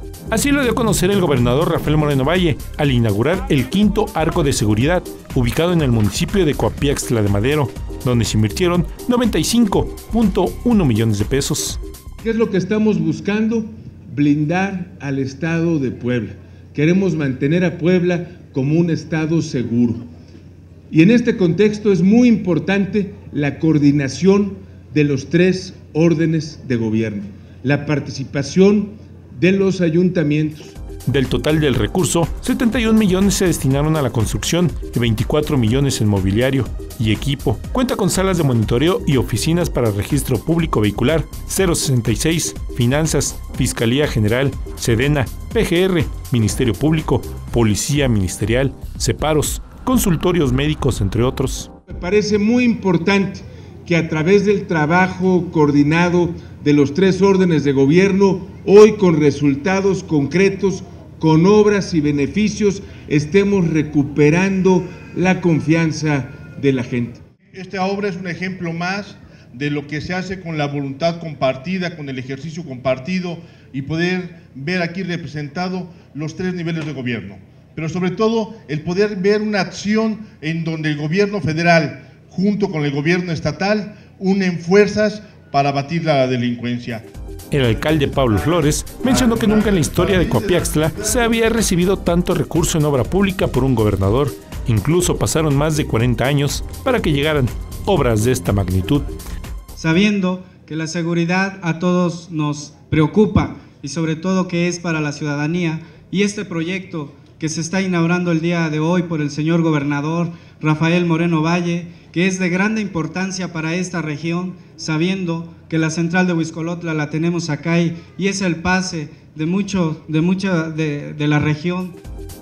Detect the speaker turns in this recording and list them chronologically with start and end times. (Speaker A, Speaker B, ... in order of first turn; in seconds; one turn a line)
Speaker A: 0.3-11.8
Speaker B: 12.2-20.1
Speaker B: 20.9-30.8
Speaker A: 31.1-51.7
Speaker B: 51.9-67.2
Speaker C: 67.5-87.0
Speaker A: 87.5-99.0
Speaker C: 89.0-90.9
Speaker D: 99.8-122.0